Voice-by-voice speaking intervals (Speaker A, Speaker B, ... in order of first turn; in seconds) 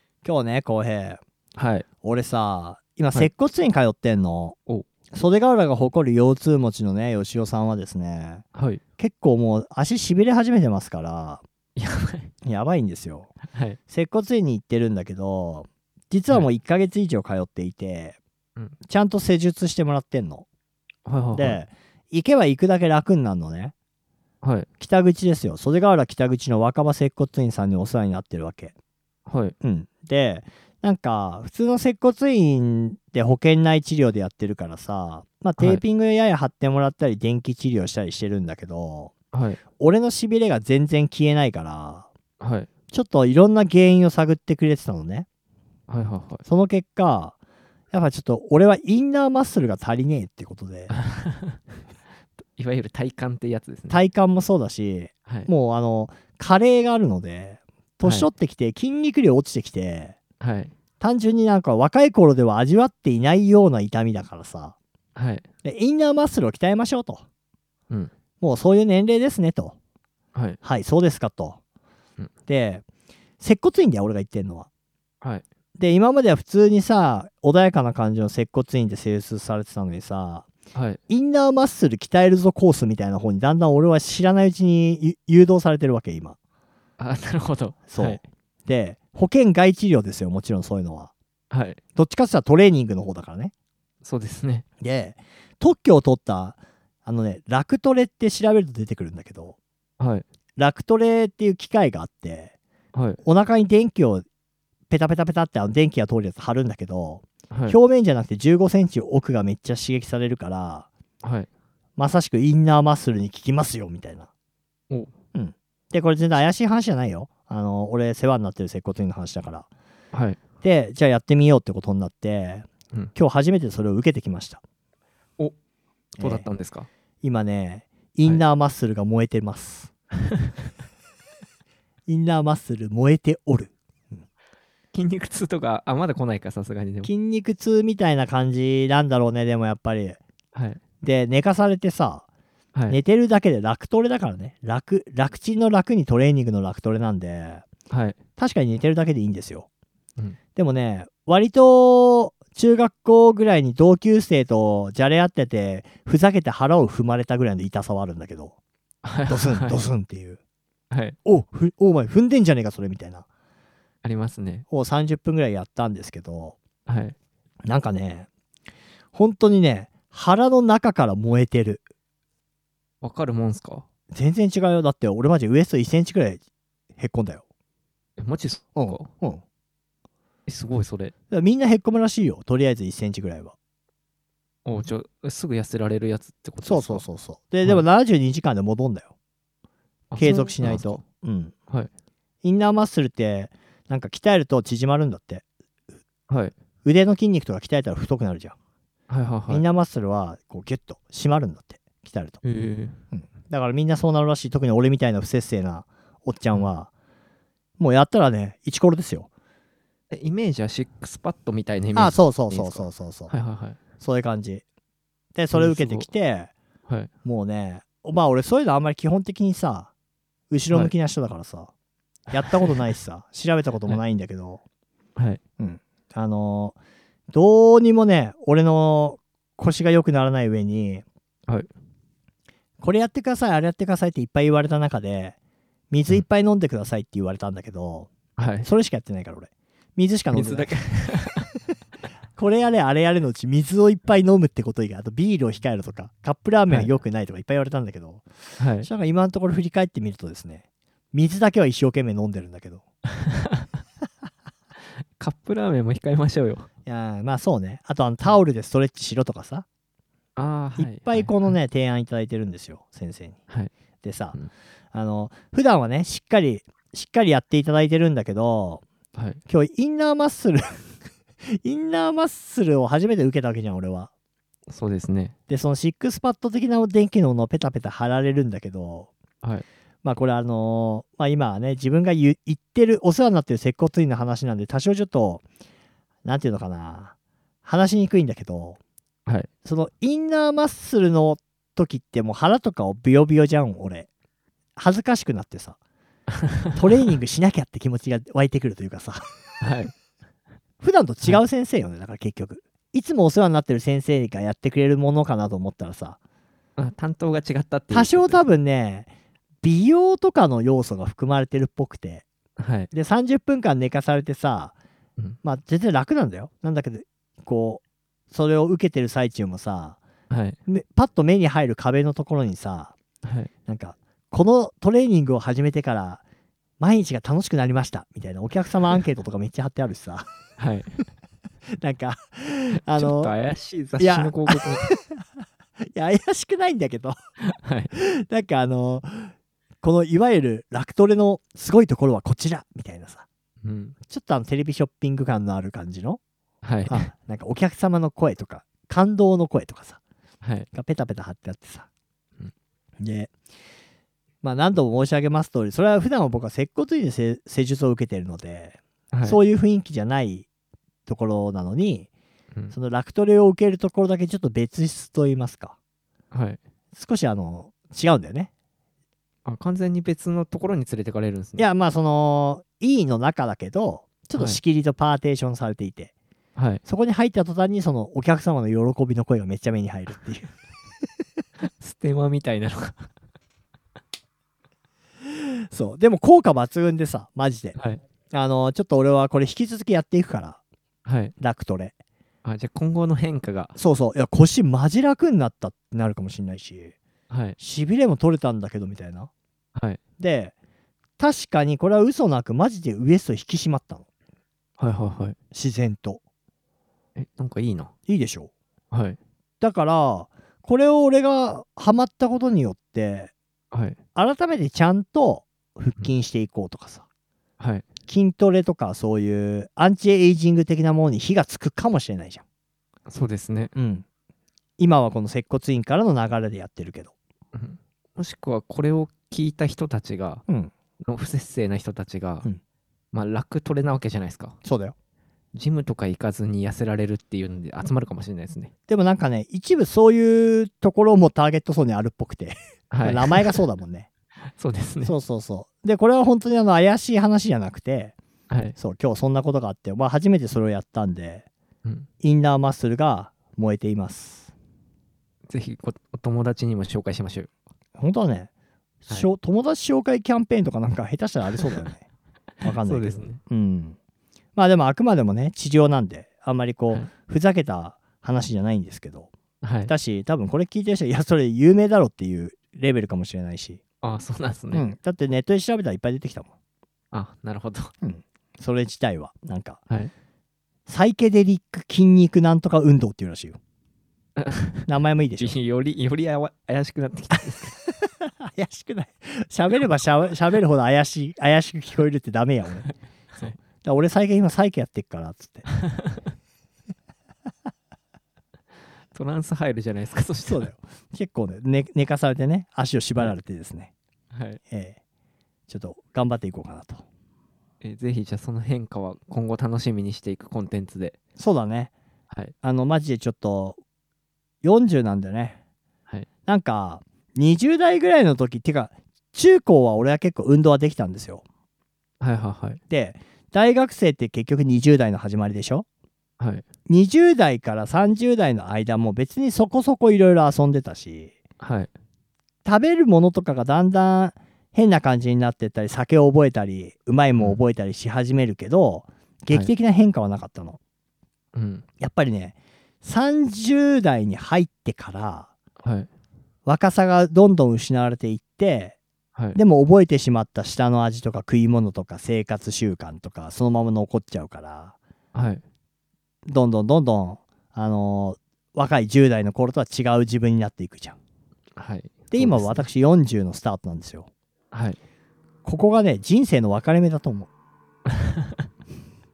Speaker A: 0.2-1.2, 2.0-4.6, 5.1-8.4, 9.0-11.4, 12.4-13.3, 13.9-18.2, 18.9-20.5, 21.3-23.7, 24.8-28.7, 29.6-39.1, 39.8-42.1, 42.9-45.3, 46.5-47.4, 47.9-50.9, 53.9-60.2, 61.0-64.8, 65.6-67.2, 68.4-69.8, 70.6-71.6, 72.5-72.8, 73.4-74.7, 75.8-80.5, 81.1-86.4, 87.9-91.1, 92.0-93.5, 94.8-99.6, 100.6-102.5, 103.2-104.2, 104.9-110.9, 112.0-114.3, 115.3-119.7, 120.6-124.6, 126.2-126.5, 127.2-129.9, 132.1-134.2, 137.0-140.2, 141.0-142.2, 142.9-147.7, 148.4-149.7, 150.6-158.6, 159.3-160.4, 161.2-163.3, 164.7-166.6, 167.7-168.3, 169.1-171.8, 174.1-176.4, 177.0-177.4, 178.8-179.4, 181.3-183.6, 186.6-189.1, 190.2-191.5, 192.4-195.4, 196.8-198.6, 199.5-202.4, 203.1-206.9, 207.8-209.3, 211.9-213.3, 214.0-214.6, 215.3-216.5, 217.2-219.9, 220.5-221.7, 222.3-224.6, 225.6-226.8, 227.3-231.0, 232.8-235.4, 235.9-238.1, 238.6-240.8, 242.4-248.2, 248.8-252.8, 256.9-259.7, 260.8-263.4, 264.0-264.4, 264.9-268.8, 269.5-270.8, 271.5-274.1, 275.5-279.1, 280.0-285.4, 286.2-287.1, 287.6-288.8, 289.6-294.1, 294.8-295.8, 296.7-299.2, 300.8-306.2, 307.9-309.1, 309.6-312.2, 312.9-314.7, 315.4-320.0, 320.7-322.9, 323.7-326.2, 326.8-330.3, 331.8-333.3, 334.0-335.2, 335.9-337.2, 337.9-343.2, 344.1-346.2, 346.9-350.0, 350.7-351.9, 353.0-353.3, 354.4-360.5, 361.1-362.1, 362.7-365.8, 366.9-368.5, 371.6-376.1, 376.9-380.5, 385.7-387.8, 388.3-390.6, 391.4-391.9, 393.8-396.9, 397.6-399.3, 400.2-400.5, 401.2-404.1, 405.5-406.2, 408.1-408.5, 409.6-413.3, 414.1-417.0, 418.1-422.4, 423.8-424.1, 424.8-427.1, 434.6-434.9, 438.9-444.1, 445.0-448.1, 448.8-451.5, 452.2-454.5, 458.0-458.5, 459.1-462.1, 462.6-464.0, 464.6-469.3, 469.9-473.8, 474.7-476.5, 478.0-479.8, 480.9-483.6, 484.9-485.6, 488.1-492.9, 493.8-495.7, 500.5-503.9, 504.7-505.0, 505.7-507.0, 511.4-511.9, 512.6-513.8, 514.6-515.6, 516.5-521.4, 522.9-525.9, 526.9-531.3, 532.6-540.8, 542.0-545.5, 546.7-549.0, 549.5-555.0, 556.5-561.2, 562.3-564.3, 565.6-567.5
Speaker B: 1.6-1.9, 8.6-8.8, 11.8-12.3, 13.5-13.8, 21.1-21.6, 24.4-24.7, 29.3-29.6, 35.6-35.8, 39.3-39.6, 42.4-42.7, 45.9-46.5, 50.9-51.6, 52.6-54.0, 58.0-58.3, 60.4-60.7, 65.2-65.5, 70.3-70.6, 80.7-81.0, 87.0-88.2, 91.5-91.8, 94.0-94.7, 100.0-100.2, 102.9-103.2, 107.5-107.8, 111.2-111.5, 120.1-120.4, 126.2-126.9, 134.9-137.1, 140.5-140.8, 147.9-148.2, 159.0-159.8, 160.9-161.2, 164.0-164.7, 166.9-167.2, 173.0-173.9, 178.2-179.1, 180.5-181.1, 184.7-187.1, 190.1-191.0, 199.1-199.7, 202.4-203.0, 210.1-213.8, 215.5-216.1, 238.4-238.7, 240.3-241.5, 248.6-248.9, 253.2-253.7, 255.2-256.7, 260.4-261.3, 269.1-269.4, 274.7-275.4, 299.6-299.9, 306.8-308.4, 312.6-312.9, 320.3-320.6, 323.2-323.5, 330.6-330.9, 332.9-334.9, 337.5-337.9, 343.6-344.0, 346.6-347.1, 350.4-350.7, 359.1-359.4, 366.3-366.6, 369.4-371.7, 376.6-376.8, 381.7-383.1, 387.8-388.0, 391.1-391.3, 392.4-393.7, 397.3-397.6, 399.8-400.0, 404.8-405.4, 407.2-407.9, 408.9-409.2, 413.7-414.0, 417.6-417.9, 423.1-423.7, 427.5-430.4, 431.0-432.5, 433.1-434.6, 435.5-438.7, 442.9-443.4, 444.6-445.1, 448.5-448.8, 455.5-457.5, 462.6-463.4, 469.6-469.9, 474.0-474.9, 477.1-477.9, 484.4-484.9, 485.4-487.8, 495.7-496.2, 499.1-500.7, 504.3-504.6, 507.8-511.2, 522.2-522.8, 531.6-531.9, 541.5-541.9, 545.8-546.1, 555.3-555.6, 561.8-562.9, 564.7-565.0, 568.1-568.6